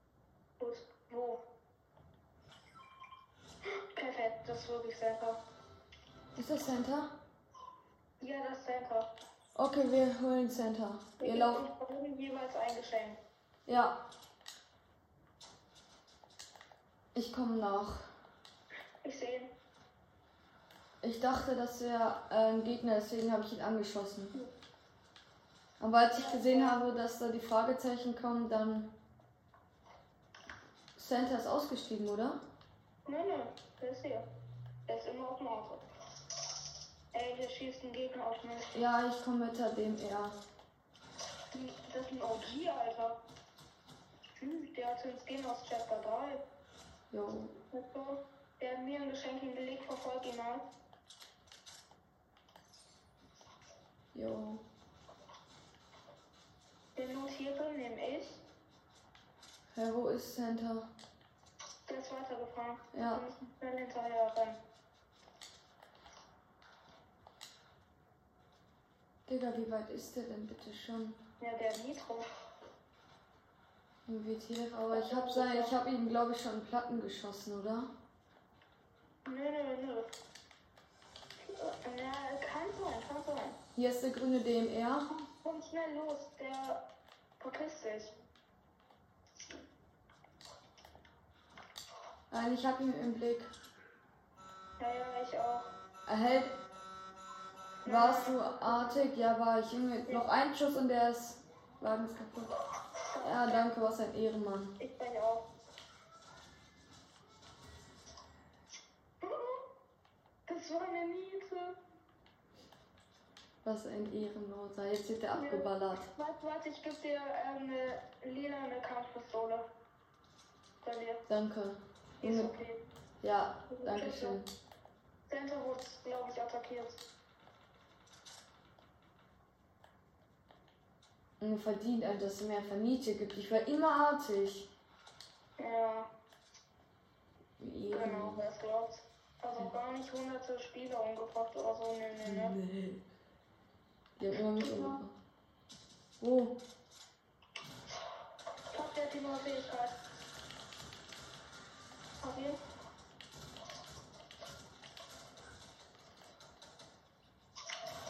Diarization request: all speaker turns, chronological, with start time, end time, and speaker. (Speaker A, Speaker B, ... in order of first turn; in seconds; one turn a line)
Speaker A: 0.6-1.4
Speaker A: 3.9-5.4
Speaker B: 6.3-7.1
Speaker A: 8.2-9.1
Speaker B: 9.6-11.6
Speaker A: 11.2-13.2
Speaker B: 13.7-13.9
Speaker B: 17.1-18.0
Speaker A: 19.0-19.5
Speaker B: 21.0-24.3
Speaker B: 25.8-28.9
Speaker A: 26.1-26.9
Speaker B: 30.9-32.4
Speaker A: 33.0-34.2
Speaker A: 34.9-35.8
Speaker A: 37.1-38.7
Speaker B: 38.7-40.3
Speaker A: 41.5-43.2
Speaker A: 44.4-46.4
Speaker B: 47.1-47.5
Speaker A: 47.7-50.6
Speaker B: 54.1-54.6
Speaker A: 57.0-58.4
Speaker B: 59.7-60.9
Speaker A: 61.9-64.6
Speaker B: 62.9-63.2
Speaker B: 69.3-71.2
Speaker A: 71.4-72.2
Speaker B: 74.0-77.9
Speaker A: 74.9-75.8
Speaker A: 79.2-80.0
Speaker A: 81.4-83.6
Speaker B: 83.7-85.1
Speaker A: 85.1-86.8
Speaker A: 87.4-88.1
Speaker B: 92.3-93.5
Speaker A: 94.8-95.7
Speaker B: 96.0-96.5
Speaker A: 97.8-99.0
Speaker B: 97.8-102.5
Speaker A: 103.1-103.6
Speaker B: 103.2-104.8
Speaker A: 104.8-105.5
Speaker A: 109.2-109.6
Speaker A: 110.5-111.8
Speaker B: 113.6-116.1
Speaker A: 115.3-119.6
Speaker A: 120.8-121.2
Speaker B: 121.3-122.5
Speaker A: 122.2-122.8
Speaker B: 123.2-124.5
Speaker A: 123.7-124.4
Speaker A: 125.3-127.0
Speaker B: 131.4-134.7
Speaker A: 135.6-136.1
Speaker B: 137.6-138.4
Speaker A: 137.9-142.6
Speaker B: 142.2-143.1
Speaker B: 144.2-145.1
Speaker A: 144.6-145.0
Speaker B: 146.2-146.6
Speaker A: 148.7-149.9
Speaker A: 152.2-152.6